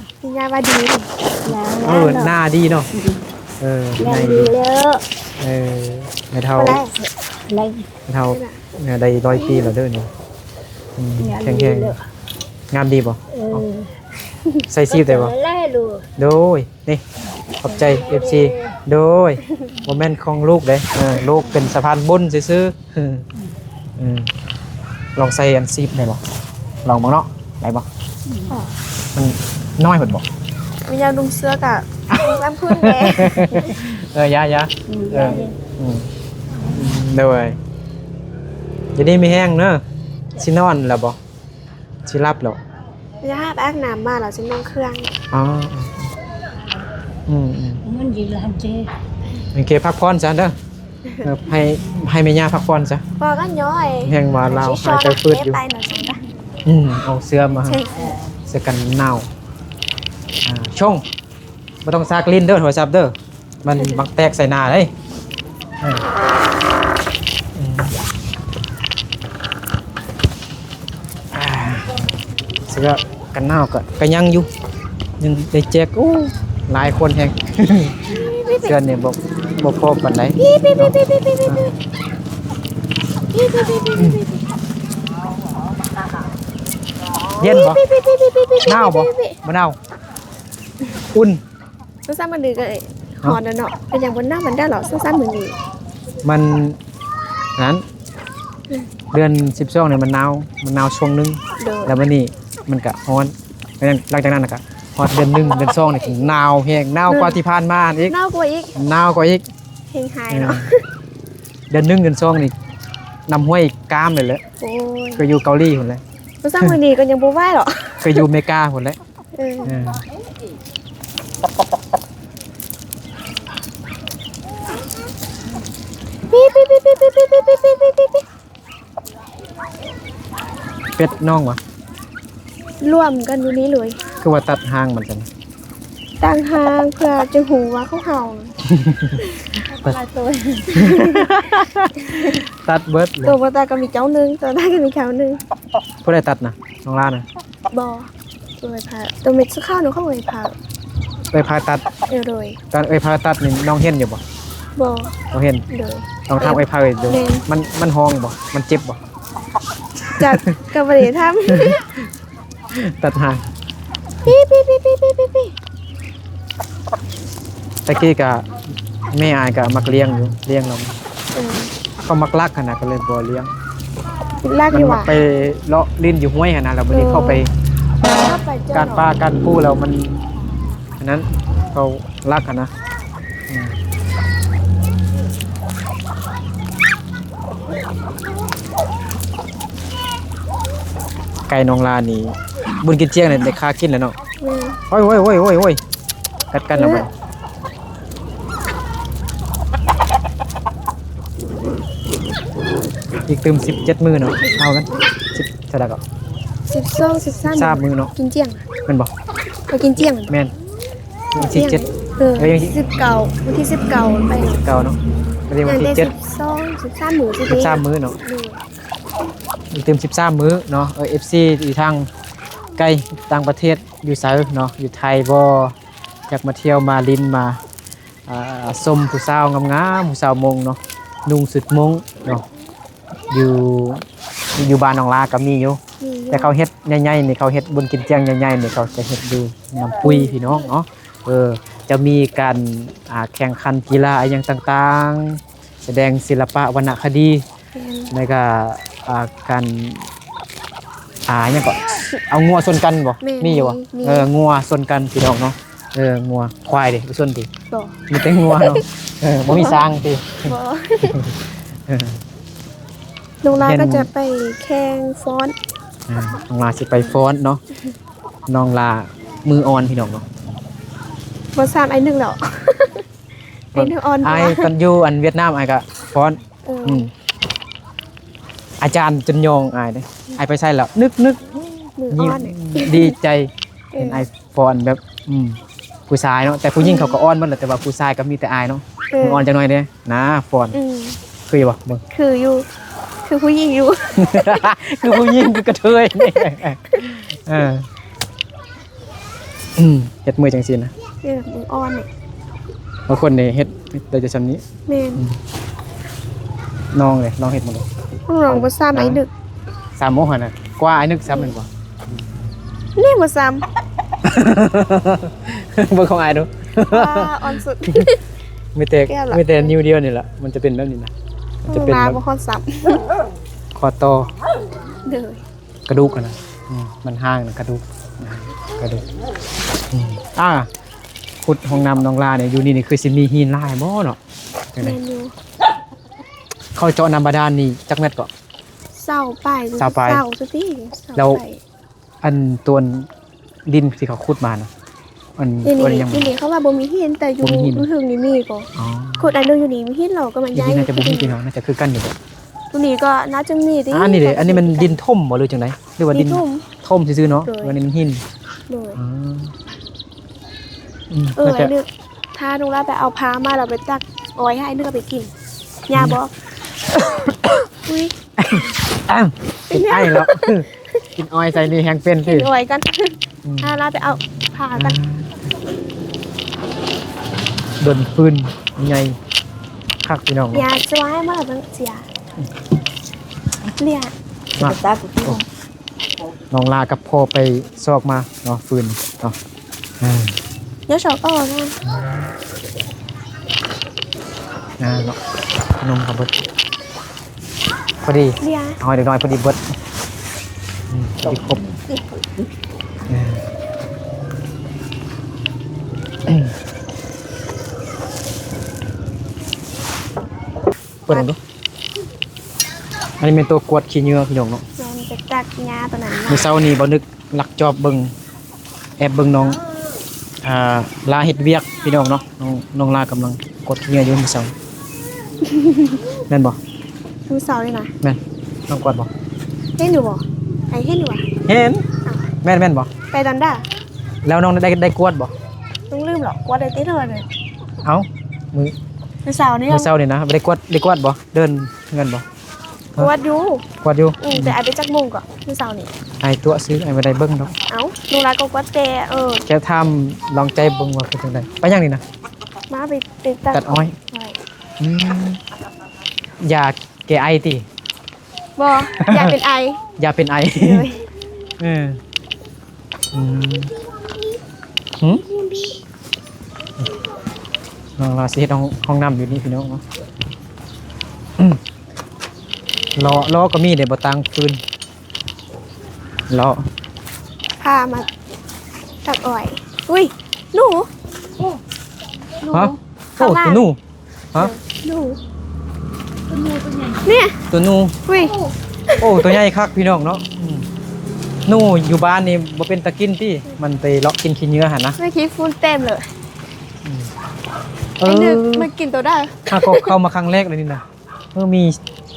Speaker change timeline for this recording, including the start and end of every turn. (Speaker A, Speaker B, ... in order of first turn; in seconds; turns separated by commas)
Speaker A: 0.2-1.1, Speaker B: 1.4-2.3, Speaker C: 1.8-2.9, Speaker B: 2.9-3.2, Speaker C: 3.6-4.5, Speaker B: 4.0-5.0, Speaker C: 5.4-6.8, Speaker A: 6.5-6.9, Speaker B: 7.5-7.9, Speaker C: 8.1-10.1, Speaker A: 8.3-8.6, Speaker C: 11.0-11.9, Speaker B: 11.2-12.0, Speaker C: 12.7-13.7, Speaker B: 13.3-13.9, Speaker C: 14.7-15.3, Speaker B: 14.9-16.1, Speaker C: 16.2-17.0, Speaker C: 17.6-23.3, Speaker B: 17.6-18.7, Speaker C: 24.0-24.3, Speaker C: 25.1-26.2, Speaker C: 26.8-27.9, Speaker C: 29.1-30.2, Speaker A: 30.9-33.8, Speaker C: 32.1-36.1, Speaker B: 34.9-35.5, Speaker B: 36.6-36.9, Speaker C: 36.7-37.6, Speaker C: 39.0-39.8, Speaker C: 40.3-41.2, Speaker C: 42.0-42.6, Speaker A: 43.2-45.1, Speaker C: 45.3-46.1, Speaker C: 47.3-47.8, Speaker B: 47.8-48.9, Speaker C: 49.5-50.5, Speaker C: 51.2-53.0, Speaker A: 53.2-56.2, Speaker C: 54.0-55.6, Speaker C: 56.6-57.8, Speaker A: 57.6-58.1, Speaker C: 58.5-59.3, Speaker C: 60.4-61.0, Speaker C: 61.8-64.9, Speaker C: 67.5-67.9, Speaker C: 71.3-71.9, Speaker C: 72.7-74.5, Speaker C: 75.2-80.9, Speaker A: 78.1-78.7, Speaker A: 80.4-81.7, Speaker A: 83.3-84.4, Speaker A: 87.4-89.4, Speaker C: 87.4-87.8, Speaker C: 88.6-89.8, Speaker C: 91.1-91.4, Speaker A: 92.0-95.6, Speaker C: 96.2-96.8, Speaker C: 97.5-97.8, Speaker C: 99.1-108.1, Speaker A: 101.6-102.0, Speaker A: 107.1-107.4, Speaker A: 108.1-108.7, Speaker C: 108.7-109.4, Speaker A: 109.9-110.8, Speaker C: 110.3-110.7, Speaker C: 111.7-112.5, Speaker C: 113.3-114.4, Speaker A: 114.6-115.2, Speaker C: 115.2-116.0, Speaker A: 116.4-118.3, Speaker C: 118.0-119.0, Speaker A: 119.3-119.8, Speaker C: 119.6-120.0, Speaker A: 126.3-128.2, Speaker C: 131.0-131.6, Speaker A: 132.8-134.0, Speaker C: 134.2-135.3, Speaker A: 136.2-138.5, Speaker C: 138.6-139.2, Speaker A: 139.2-141.4, Speaker C: 140.7-143.3, Speaker A: 141.9-142.4, Speaker A: 143.2-145.4, Speaker C: 146.0-147.2, Speaker A: 147.7-150.5, Speaker C: 151.3-151.8, Speaker A: 152.1-152.6, Speaker C: 152.7-154.2, Speaker A: 154.8-155.1, Speaker C: 155.3-155.6, Speaker A: 155.7-157.4, Speaker C: 156.3-159.0, Speaker C: 160.0-160.5, Speaker A: 160.2-161.8, Speaker C: 161.5-162.1, Speaker C: 162.7-163.4, Speaker A: 164.2-165.5, Speaker C: 167.8-168.5, Speaker C: 169.1-170.9, Speaker A: 171.3-171.7, Speaker C: 172.0-173.5, Speaker A: 174.4-175.1, Speaker C: 174.7-177.5, Speaker A: 176.9-177.4, Speaker A: 178.1-179.1, Speaker C: 178.7-180.2, Speaker C: 181.0-182.7, Speaker C: 183.5-183.8, Speaker C: 191.5-194.1, Speaker A: 194.4-194.8, Speaker C: 194.9-195.8, Speaker C: 196.5-197.1, Speaker A: 196.8-197.1, Speaker C: 203.3-206.0, Speaker A: 206.7-208.7, Speaker C: 207.4-208.1, Speaker A: 209.7-210.3, Speaker C: 210.3-210.5, Speaker C: 211.3-211.8, Speaker A: 211.4-214.6, Speaker C: 212.4-212.8, Speaker C: 214.6-215.0, Speaker C: 215.5-216.1, Speaker A: 215.6-218.6, Speaker C: 217.5-218.2, Speaker C: 219.7-222.1, Speaker C: 222.8-225.7, Speaker C: 226.3-227.6, Speaker C: 228.3-232.4, Speaker C: 233.3-234.0, Speaker C: 234.6-235.8, Speaker A: 236.0-236.5, Speaker C: 236.3-247.4, Speaker A: 240.1-240.3, Speaker A: 247.7-248.1, Speaker C: 248.1-250.1, Speaker C: 251.3-257.5, Speaker A: 253.2-254.3, Speaker A: 257.7-258.8, Speaker C: 258.1-261.3, Speaker A: 259.5-259.8, Speaker A: 260.4-261.2, Speaker C: 261.9-262.2, Speaker A: 263.4-265.5, Speaker C: 263.5-264.1, Speaker C: 266.1-267.6, Speaker C: 268.5-270.2, Speaker A: 271.5-273.1, Speaker A: 273.7-274.7, Speaker C: 273.7-277.1, Speaker A: 276.6-277.1, Speaker C: 278.8-281.5, Speaker A: 282.0-283.1, Speaker C: 282.1-290.8, Speaker A: 283.9-284.3, Speaker A: 286.8-287.2, Speaker A: 289.1-289.5, Speaker A: 290.7-291.2, Speaker C: 291.5-292.0, Speaker A: 292.1-292.6, Speaker A: 293.2-294.5, Speaker C: 294.1-297.9, Speaker A: 296.2-297.1, Speaker C: 299.8-300.9, Speaker A: 301.2-302.1, Speaker C: 303.1-304.6, Speaker A: 304.9-305.2, Speaker C: 306.9-307.9, Speaker A: 308.3-309.3, Speaker C: 308.5-309.2, Speaker C: 309.9-312.5, Speaker A: 313.0-313.6, Speaker C: 314.2-318.1, Speaker A: 316.9-318.2, Speaker C: 318.7-321.1, Speaker A: 319.1-319.8, Speaker C: 321.6-322.2, Speaker A: 321.7-323.0, Speaker C: 323.7-324.3, Speaker A: 325.0-325.4, Speaker C: 325.9-329.0, Speaker C: 329.9-330.7, Speaker C: 331.4-334.2, Speaker A: 334.8-335.3, Speaker C: 336.7-338.3, Speaker A: 338.9-341.6, Speaker C: 339.8-340.2, Speaker C: 341.1-341.4, Speaker C: 342.2-343.1, Speaker C: 343.6-344.7, Speaker C: 345.4-346.3, Speaker A: 345.6-351.3, Speaker C: 347.4-347.9, Speaker C: 348.7-349.3, Speaker C: 350.5-352.2, Speaker A: 352.7-354.9, Speaker C: 353.9-358.2, Speaker A: 356.1-356.7, Speaker A: 357.4-357.7, Speaker A: 358.7-359.0, Speaker C: 358.9-359.5, Speaker C: 361.1-361.7, Speaker A: 361.4-365.3, Speaker A: 365.9-366.3, Speaker C: 365.9-366.2, Speaker A: 366.9-368.1, Speaker C: 368.4-372.5, Speaker A: 369.7-370.8, Speaker A: 372.2-375.0, Speaker C: 373.4-373.8, Speaker C: 374.8-375.5, Speaker C: 377.8-379.2, Speaker C: 380.0-380.6, Speaker A: 380.5-382.1, Speaker A: 383.8-384.1, Speaker C: 384.6-385.4, Speaker B: 384.6-385.4, Speaker C: 386.5-389.4, Speaker C: 390.0-390.3, Speaker A: 390.9-391.8, Speaker C: 391.8-392.3, Speaker C: 394.8-395.2, Speaker C: 395.8-396.4, Speaker C: 398.0-399.6, Speaker A: 398.4-398.8, Speaker C: 400.9-401.6, Speaker C: 403.1-403.4, Speaker C: 406.2-406.5, Speaker C: 411.1-411.4, Speaker C: 413.2-414.6, Speaker A: 414.8-416.5, Speaker C: 416.3-418.1, Speaker C: 419.0-419.6, Speaker C: 420.4-424.5, Speaker A: 425.4-426.0, Speaker C: 426.3-426.6, Speaker A: 427.3-427.9, Speaker C: 428.0-429.1, Speaker A: 429.8-431.2, Speaker C: 431.4-431.9, Speaker C: 432.4-432.9, Speaker A: 433.1-433.6, Speaker C: 434.2-435.3, Speaker A: 435.9-437.2, Speaker C: 437.8-438.7, Speaker A: 439.2-439.9, Speaker C: 439.7-442.2, Speaker A: 443.0-443.6, Speaker C: 443.8-444.6, Speaker A: 444.2-445.9, Speaker C: 446.2-447.5, Speaker A: 447.7-449.4, Speaker C: 449.5-452.0, Speaker A: 452.7-454.4, Speaker C: 453.5-453.9, Speaker C: 454.8-455.4, Speaker C: 456.4-457.6, Speaker A: 458.6-459.8, Speaker C: 459.0-459.3, Speaker C: 460.0-460.9, Speaker A: 460.6-461.1, Speaker C: 461.6-462.0, Speaker C: 463.1-463.7, Speaker C: 468.0-469.8, Speaker C: 472.9-474.6, Speaker C: 476.3-476.6, Speaker A: 477.6-478.1, Speaker A: 479.0-480.9, Speaker A: 482.4-483.6, Speaker C: 482.5-483.8, Speaker A: 484.4-485.2, Speaker A: 487.0-487.4, Speaker C: 487.5-487.9, Speaker A: 488.1-489.4, Speaker C: 489.0-490.7, Speaker C: 491.4-495.0, Speaker A: 495.0-496.0, Speaker C: 496.8-497.1, Speaker C: 498.0-498.7, Speaker A: 498.0-499.9, Speaker C: 499.5-501.8